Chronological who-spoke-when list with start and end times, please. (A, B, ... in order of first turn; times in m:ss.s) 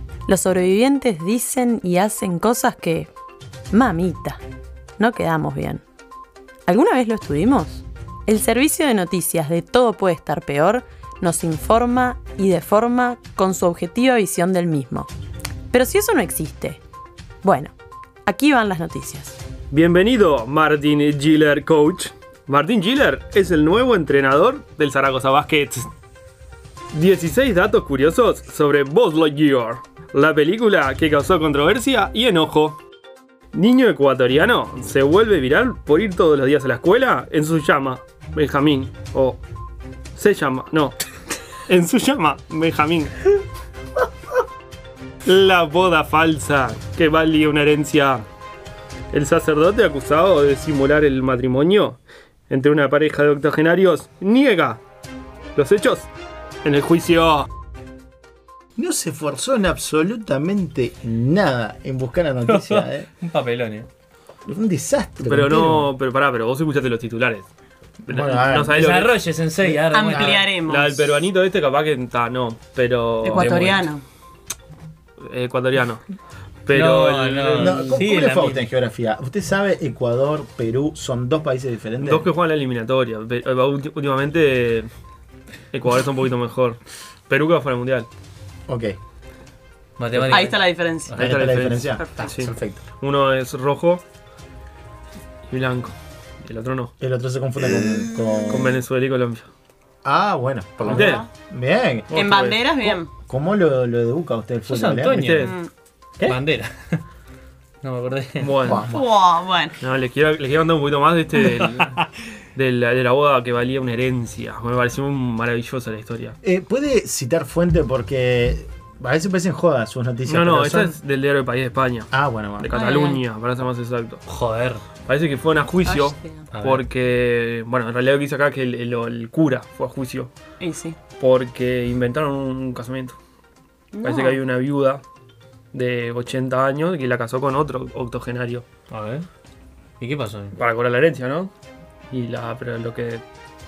0:00.2-0:03.1 A
0:03.7-0:04.4 A
0:05.0-0:05.8 A
0:06.7-0:15.1 A
0:15.7-0:16.8 A
0:17.4-0:17.7 A
0:18.2-0:19.4 A
0:19.7-0:25.9 B
0:26.9-0:32.8 B
0:33.5-0:39.4 B
0:40.2-0:41.0 B
0:41.7-0:43.2 B
0:45.2-0:48.3 B
0:49.1-0:52.0 B
0:52.5-0:54.8 B
0:55.6-0:56.1 B
0:56.6-0:57.5 B
0:58.8-1:03.1 C
1:02.4-1:03.9 D
1:04.4-1:05.9 C
1:05.2-1:07.5 B
1:08.0-1:09.2 B
1:08.1-1:08.7 C
1:08.7-1:10.5 D
1:09.6-1:10.4 C
1:09.9-1:10.9 E
1:10.6-1:13.6 B
1:13.2-1:14.0 E
1:13.3-1:13.9 D
1:15.2-1:16.0 B
1:16.7-1:17.9 B
1:16.7-1:18.6 D
1:17.6-1:22.3 C
1:22.0-1:24.9 B
1:25.7-1:28.1 B
1:28.7-1:29.0 C
1:30.0-1:31.3 D
1:30.2-1:31.2 E
1:31.1-1:32.8 C
1:31.1-1:34.0 B
1:31.9-1:32.3 E
1:35.5-1:36.9 B
1:37.0-1:38.8 C
1:38.5-1:39.5 B
1:40.0-1:42.1 C
1:40.9-1:41.2 B
1:40.9-1:41.3 E
1:42.1-1:43.0 B
1:42.1-1:43.1 E
1:43.2-1:45.3 C
1:44.7-1:45.5 D
1:45.0-1:45.5 B
1:45.4-1:45.7 E
1:46.2-1:47.0 D
1:47.8-1:48.6 D
1:48.4-1:48.9 B
1:48.6-1:49.0 C
1:48.7-1:49.8 E
1:49.8-1:52.0 B
1:51.6-1:51.9 D
1:52.5-1:56.4 B
1:56.4-2:01.0 C
2:00.3-2:04.2 B
2:02.1-2:02.8 C
2:02.7-2:03.2 E
2:04.3-2:04.8 D
2:05.0-2:10.3 B
2:05.8-2:06.5 E
2:06.5-2:06.8 D
2:10.6-2:11.0 E
2:11.1-2:13.2 B
2:13.9-2:14.4 E
2:14.0-2:15.0 B
2:15.7-2:18.6 B
2:18.9-2:19.2 D
2:20.0-2:20.5 D
2:20.6-2:21.5 B
2:22.1-2:23.2 B